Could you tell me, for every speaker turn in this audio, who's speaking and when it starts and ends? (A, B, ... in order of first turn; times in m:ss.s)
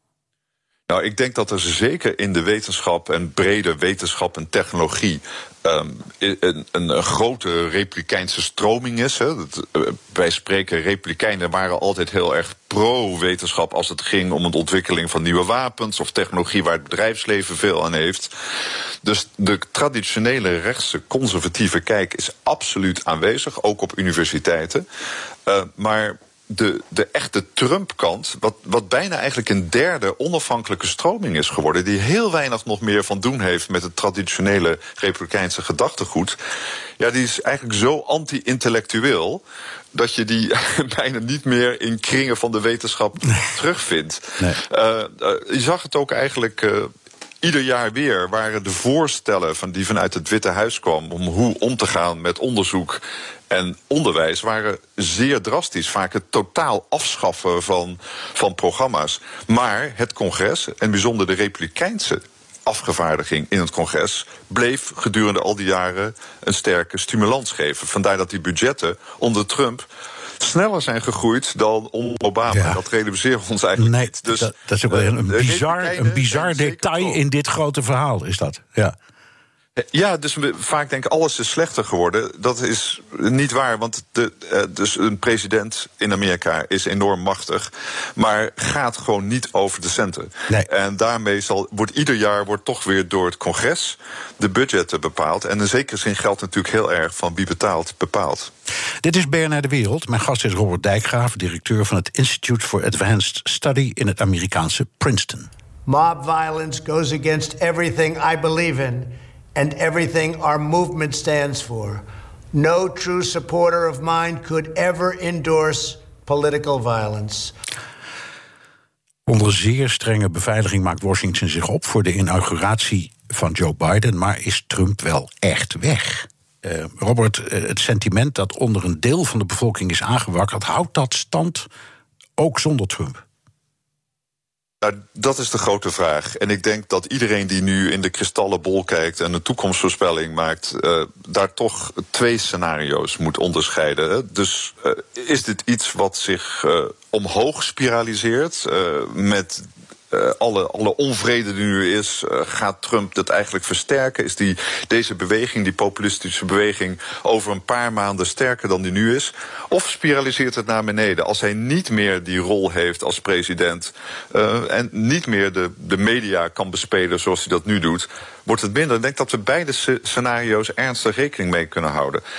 0:00.9-0:18.3 A
0:19.0-0:24.8 A
0:25.5-0:36.4 A
0:37.0-0:39.4 A
0:39.9-0:46.9 A
0:47.4-1:09.9 A
1:10.4-1:17.2 A
1:12.5-1:12.8 B
1:13.8-1:19.0 B
1:19.8-1:38.5 A
1:39.0-1:45.5 B
1:45.9-1:48.9 C
1:49.6-1:52.0 C
1:52.6-1:57.4 C
1:59.3-2:11.7 B
2:12.4-2:13.2 B
2:14.8-2:52.2 A